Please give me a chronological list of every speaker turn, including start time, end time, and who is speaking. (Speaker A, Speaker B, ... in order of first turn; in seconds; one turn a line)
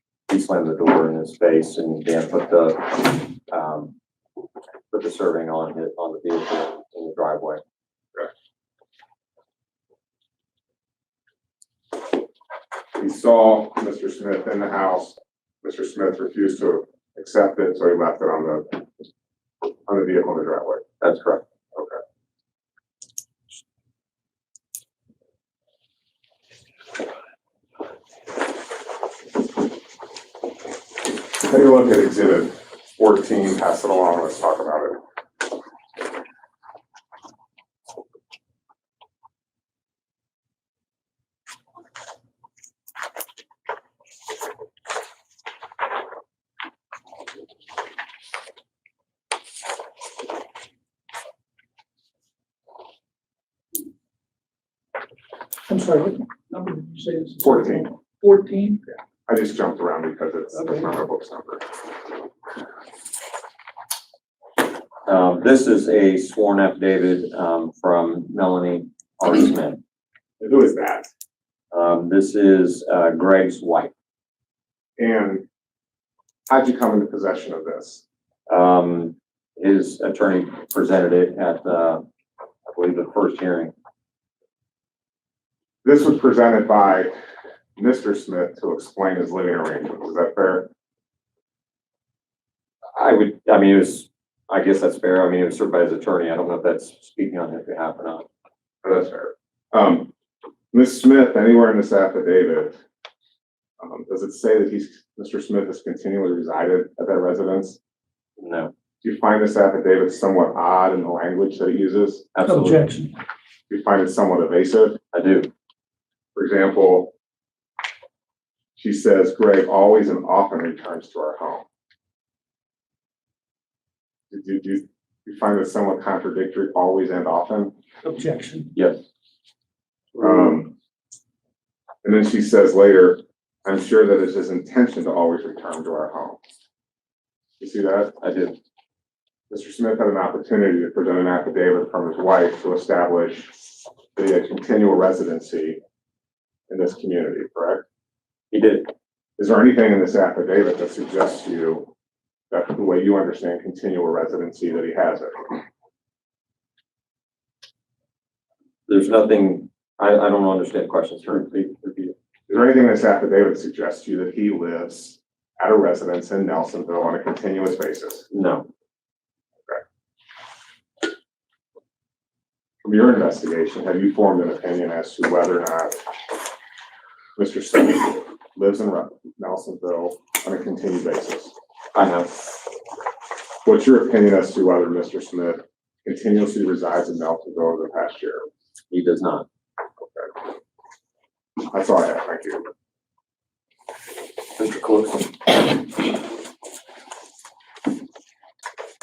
Speaker A: 0.3-3.9
Speaker A: 4.9-7.6
Speaker B: 13.0-19.0
Speaker B: 19.9-20.8
Speaker A: 21.0-21.4
Speaker B: 21.7-22.0
Speaker B: 31.4-35.0
Speaker C: 55.7-58.8
Speaker B: 57.4-57.9
Speaker B: 59.2-61.7
Speaker C: 60.5-60.9
Speaker A: 65.0-69.8
Speaker B: 70.4-71.1
Speaker A: 71.7-73.9
Speaker B: 75.0-75.4
Speaker B: 76.5-78.0
Speaker A: 78.5-82.0
Speaker A: 82.7-83.7
Speaker B: 85.8-87.1
Speaker B: 87.8-90.7
Speaker A: 93.0-98.2
Speaker B: 98.8-100.1
Speaker B: 100.7-102.8
Speaker B: 103.8-107.8
Speaker A: 108.4-108.7
Speaker B: 109.0-112.3
Speaker A: 112.3-112.8
Speaker C: 112.4-113.1
Speaker B: 113.7-115.0
Speaker A: 115.1-115.5
Speaker B: 116.3-117.1
Speaker B: 118.8-121.6
Speaker B: 124.3-127.7
Speaker C: 128.0-128.7
Speaker A: 128.7-129.0
Speaker B: 130.2-130.7
Speaker B: 132.0-136.4
Speaker B: 137.6-138.2
Speaker A: 138.2-138.6
Speaker B: 139.5-143.6
Speaker B: 144.2-145.8
Speaker B: 146.7-147.8
Speaker A: 148.5-148.9
Speaker B: 149.4-151.9
Speaker B: 152.5-155.6
Speaker A: 158.9-162.1
Speaker B: 162.5-168.2
Speaker A: 168.3-168.7
Speaker B: 172.8-176.1
Speaker B: 177.3-181.5
Speaker A: 181.9-182.3
Speaker B: 183.7-188.5
Speaker A: 188.9-189.4
Speaker B: 190.0-190.3
Speaker B: 191.7-192.7
Speaker A: 194.6-195.8